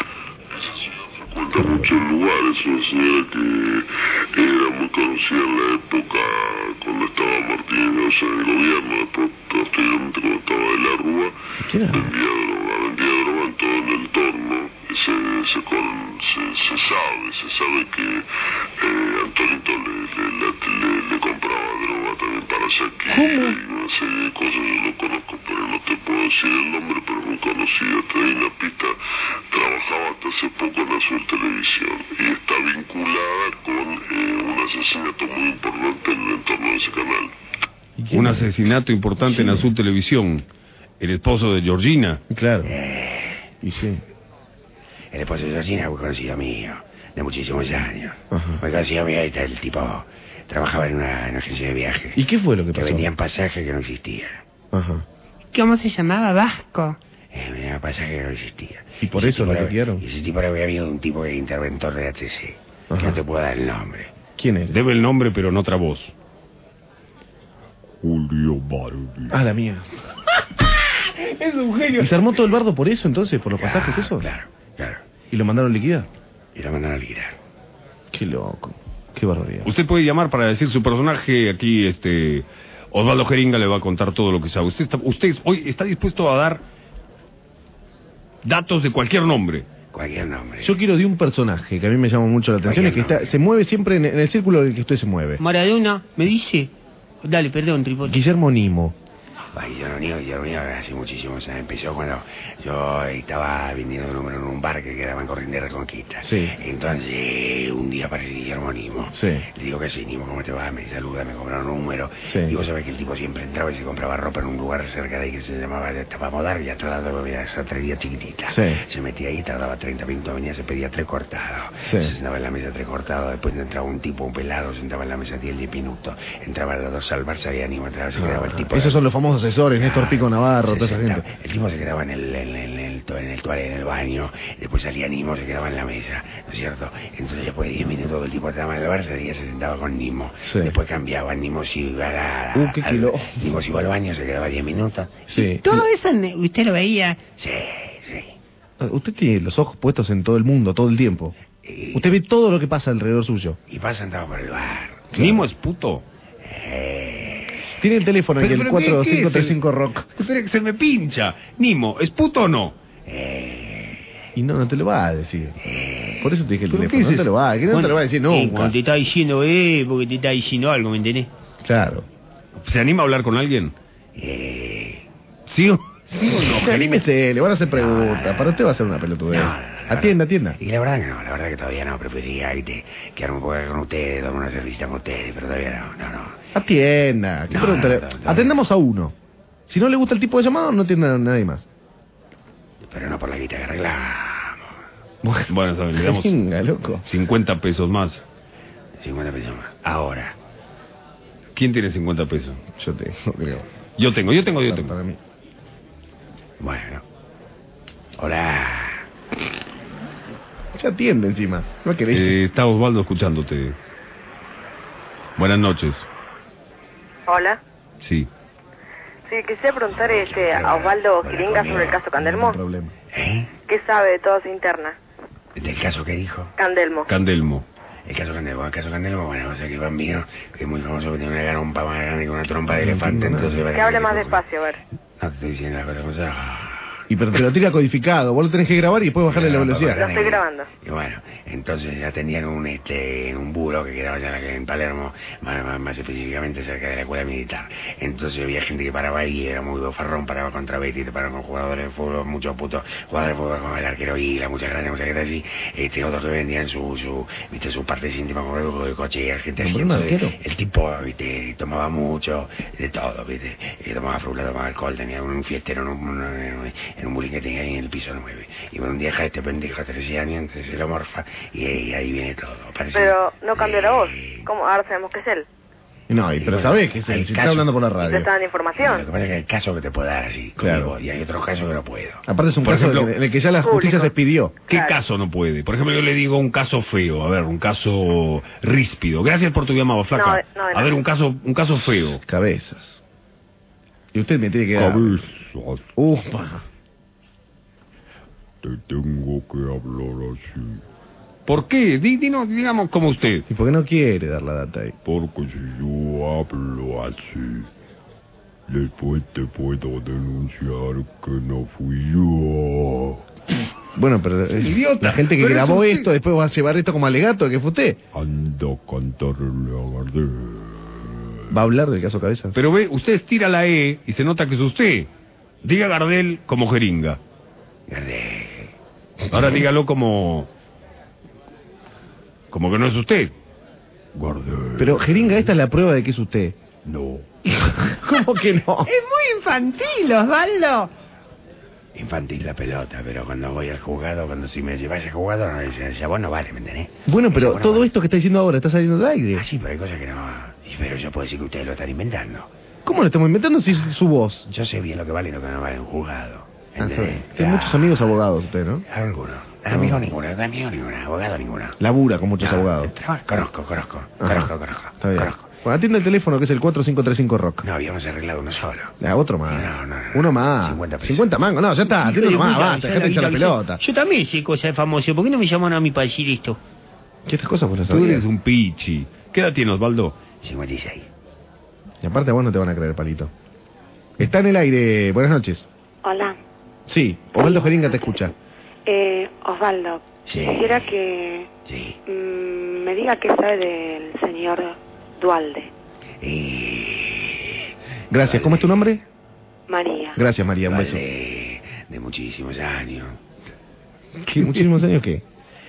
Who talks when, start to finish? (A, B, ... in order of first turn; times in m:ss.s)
0:00.5-0:11.4 A
0:11.6-0:12.1 B
0:11.9-0:18.3 A
0:18.8-0:29.0 A
0:29.5-0:37.3 A
0:38.0-0:38.5 B
0:38.1-0:40.4 C
0:39.3-0:39.7 B
0:41.0-0:42.2 C
0:42.3-0:42.7 B
0:42.6-0:43.5 D
0:43.6-0:44.0 B
0:45.1-0:52.2 D
0:48.3-0:48.6 B
0:52.2-0:53.1 B
0:52.7-0:54.4 D
0:54.7-0:55.0 B
0:55.5-0:57.0 E
0:57.3-1:04.1 D
0:59.0-1:00.0 B
1:02.9-1:03.2 B
1:04.4-1:04.8 B
1:04.7-1:06.1 C
1:08.0-1:09.3 F
1:09.3-1:09.9 B
1:10.6-1:12.2 C
1:12.0-1:14.3 B
1:13.6-1:15.0 D
1:15.3-1:16.1 B
1:16.6-1:17.4 D
1:18.1-1:19.7 B
1:19.6-1:26.6 C
1:28.4-1:29.7 C
1:29.9-1:30.7 D
1:30.6-1:35.4 B
1:32.6-1:33.4 D
1:35.4-1:36.7 E
1:37.2-1:38.2 E
1:38.0-1:39.0 B
1:39.5-2:09.0 D
1:46.2-1:46.6 B
1:49.1-1:49.5 B
1:52.2-1:52.6 B
1:58.5-1:58.8 B
2:01.8-2:02.1 B
2:08.2-2:11.3 B
2:09.8-2:25.3 D
2:20.5-2:20.8 B
2:22.5-2:23.6 B
2:25.3-2:25.9 B
2:25.4-2:27.2 E
2:27.4-2:28.4 D
2:28.8-2:31.3 B
2:31.6-2:32.1 D
2:31.9-2:33.6 B
2:33.7-2:35.2 D
2:35.1-2:36.0 C
2:35.1-2:35.5 B
2:36.4-2:37.6 D
2:37.8-2:40.1 B
2:38.4-2:39.6 C
2:40.2-2:42.8 C
2:43.1-2:44.1 D
2:44.4-2:45.6 B
2:45.6-2:46.4 D
2:46.2-2:48.8 B
2:46.7-2:47.3 C
2:47.7-2:51.3 E
2:51.6-2:52.1 B
2:52.6-2:53.8 C
2:54.2-2:55.1 D
2:55.5-2:57.0 C
2:56.4-3:00.6 B
2:57.7-2:58.6 D
2:59.3-3:06.4 D
3:06.5-3:09.1 B
3:07.5-3:08.6 D
3:09.7-3:11.7 B
3:12.8-3:14.7 D
3:15.2-3:17.1 B
3:15.5-3:16.4 C
3:17.0-3:18.3 C
3:19.0-3:20.4 D
3:21.6-3:22.6 C
3:22.8-3:23.7 B
3:24.0-3:24.9 C
3:24.6-3:25.2 B
3:26.6-3:27.0 D
3:28.2-3:29.1 D
3:30.7-3:32.4 B
3:32.1-3:33.8 C
3:35.4-3:36.1 C
3:37.3-3:37.6 G
3:38.0-3:38.3 C
3:39.3-3:42.6 G
3:39.9-3:42.1 D
3:42.2-3:42.9 B
3:43.1-3:43.6 D
3:43.7-3:45.0 G
3:45.6-3:46.5 D
3:46.6-3:47.1 G
3:47.1-3:47.7 C
3:48.1-3:54.5 D
3:52.7-3:53.6 B
3:53.7-3:54.8 G
3:55.2-3:57.0 D
3:57.1-4:00.0 B
3:59.3-4:34.5 D
3:59.9-4:00.7 G
4:19.6-4:20.4 B
4:32.9-4:35.5 G
4:36.1-4:38.3 B
4:36.4-4:38.2 D
4:38.0-4:39.1 G
4:38.8-4:42.2 D
4:40.6-4:41.0 B
4:42.3-4:44.6 B
4:42.6-4:43.1 C
4:43.6-4:44.1 G
4:44.7-4:45.0 G
4:44.7-4:52.2 C
4:50.2-4:51.0 G
4:52.2-4:53.0 B
4:54.1-4:55.3 B
4:54.8-4:55.8 F
4:56.0-4:56.6 B
4:58.6-5:00.8 F
5:01.5-5:03.5 C
5:03.5-5:05.0 B
5:05.1-5:07.7 F
5:08.7-5:13.2 F
5:14.0-5:18.0 B
5:14.6-5:16.1 C
5:18.1-5:21.4 F
5:21.5-5:22.6 B
5:22.5-5:25.1 C
5:25.6-5:27.2 C
5:27.9-5:28.7 D
5:29.3-5:30.5 C
5:32.5-5:33.3 C
5:34.2-5:35.3 C
5:34.8-5:36.6 B
5:36.9-5:37.3 C
5:37.5-5:38.9 B
5:38.9-5:40.9 E
5:42.0-5:47.9 D
5:47.1-5:49.5 B
5:49.3-5:52.5 D
5:52.8-5:54.5 B
5:54.5-5:58.2 D
5:56.8-5:58.8 B
5:58.9-6:01.8 D
5:59.7-6:00.1 B
6:01.8-6:03.0 B
6:02.4-6:05.6 D
6:04.2-6:07.6 B
6:07.6-6:09.0 D
6:09.0-6:13.8 B
6:09.5-6:11.3 D
6:11.9-6:16.6 E
6:17.3-6:18.3 B
6:17.9-6:20.2 C
6:20.4-6:21.1 D
6:22.0-6:23.3 B
6:24.2-6:25.7 B
6:26.0-6:26.4 H
6:26.9-6:28.3 B
6:27.4-6:28.1 H
6:28.9-6:31.5 H
6:30.3-6:31.0 D
6:31.6-6:32.0 D
6:32.1-6:35.7 H
6:36.2-6:38.8 D
6:38.1-6:39.0 B
6:39.7-6:40.2 H
6:40.2-6:41.0 B
6:40.7-6:43.2 D
6:44.3-6:45.2 B
6:44.4-6:44.7 D